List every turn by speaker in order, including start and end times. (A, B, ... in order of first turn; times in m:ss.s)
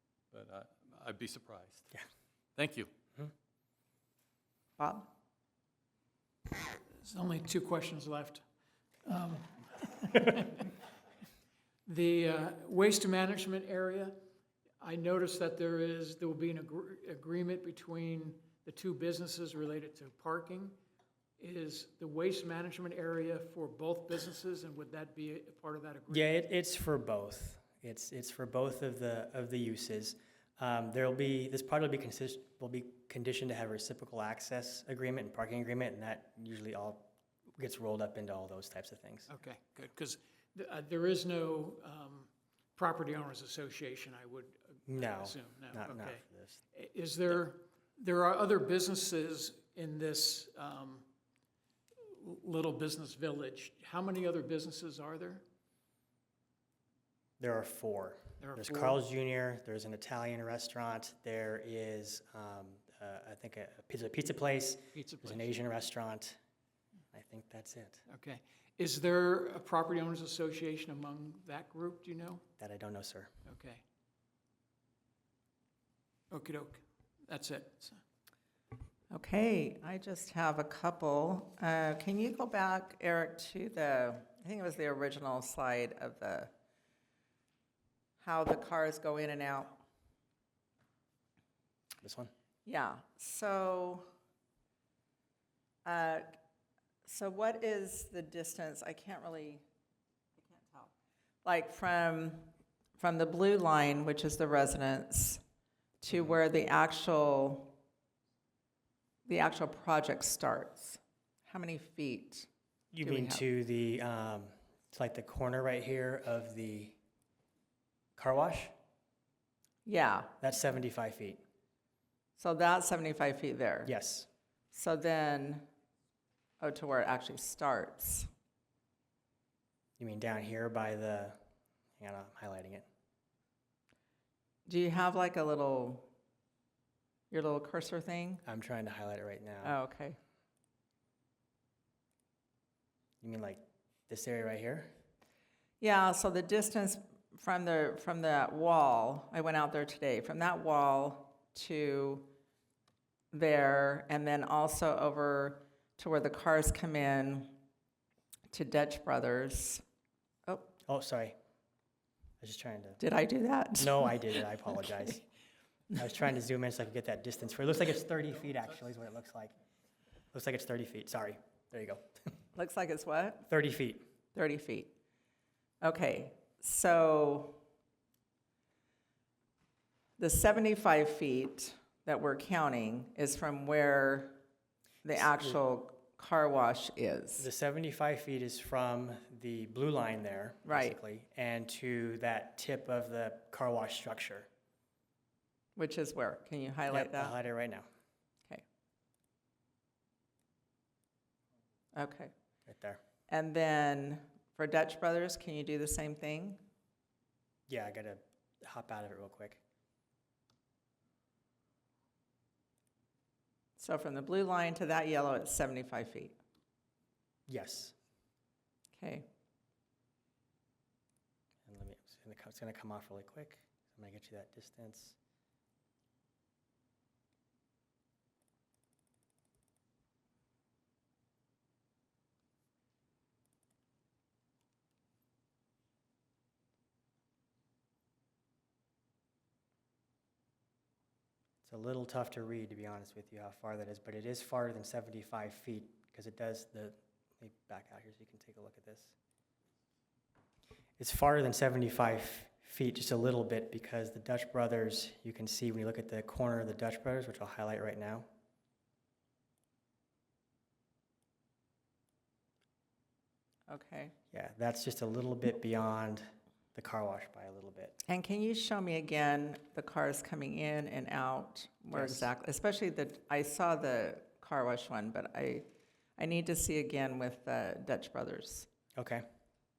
0:00.3-0:02.0 A
0:02.6-0:02.9 A
0:04.8-0:05.1 B
0:07.0-0:08.4 C
0:09.0-0:10.7 C
0:11.9-0:14.2 C
0:14.8-0:20.8 C
0:21.4-0:26.3 C
0:26.1-0:39.3 D
0:39.3-0:46.2 C
0:44.9-0:46.6 D
0:46.7-0:51.1 C
0:52.0-0:55.4 C
0:57.4-1:06.4 D
0:58.4-0:59.0 C
1:05.0-1:05.6 C
1:07.1-1:08.0 D
1:08.1-1:12.4 C
1:12.6-1:13.3 D
1:13.5-1:13.8 C
1:16.3-1:18.0 C
1:19.1-1:26.5 B
1:28.2-1:29.8 B
1:32.0-1:32.3 D
1:32.6-1:34.0 B
1:35.8-1:36.4 B
1:37.0-1:39.6 B
1:40.4-1:40.9 B
1:41.4-1:45.4 B
1:46.0-1:47.8 B
1:49.3-1:52.5 B
1:52.9-1:57.0 D
1:53.0-1:53.4 B
1:58.2-1:58.7 D
1:59.8-2:00.4 B
2:00.4-2:01.4 D
2:02.4-2:03.9 B
2:03.9-2:04.3 D
2:04.7-2:05.7 B
2:06.6-2:08.3 B
2:10.0-2:11.4 D
2:12.0-2:12.8 D
2:14.7-2:16.1 B
2:17.3-2:18.4 B
2:18.4-2:19.8 D
2:19.6-2:20.2 B
2:23.2-2:24.9 D
2:25.8-2:32.3 B
2:33.3-2:37.6 B
2:38.5-2:39.8 B
2:40.5-2:40.7 B
2:40.9-2:41.4 D
2:42.4-2:43.0 D
2:43.0-2:44.5 B
2:43.8-2:45.3 D
2:46.0-2:49.5 D
2:50.3-2:52.0 D
2:52.6-2:53.5 B
2:53.5-2:54.0 D
2:54.3-2:55.0 B
2:55.8-2:57.6 B
3:00.2-3:04.4 B
3:05.0-3:07.5 B
3:07.4-3:14.5 D
3:10.7-3:11.0 B
3:15.8-3:17.4 B
3:16.9-3:17.9 D
3:22.0-3:22.3 B
3:22.7-3:23.0 D
3:23.3-3:26.6 B
3:27.7-3:29.6 D
3:33.8-3:36.4 B
3:37.5-3:37.9 D
3:39.0-3:39.3 B
3:41.7-3:45.2 D
4:01.6-4:09.2 D
4:11.0-4:18.3 D
4:23.7-4:24.2 B
4:24.3-4:28.0 D
4:28.0-4:35.7 B
4:31.9-4:32.3 D
4:36.2-4:38.7 B
4:39.0-4:39.2 D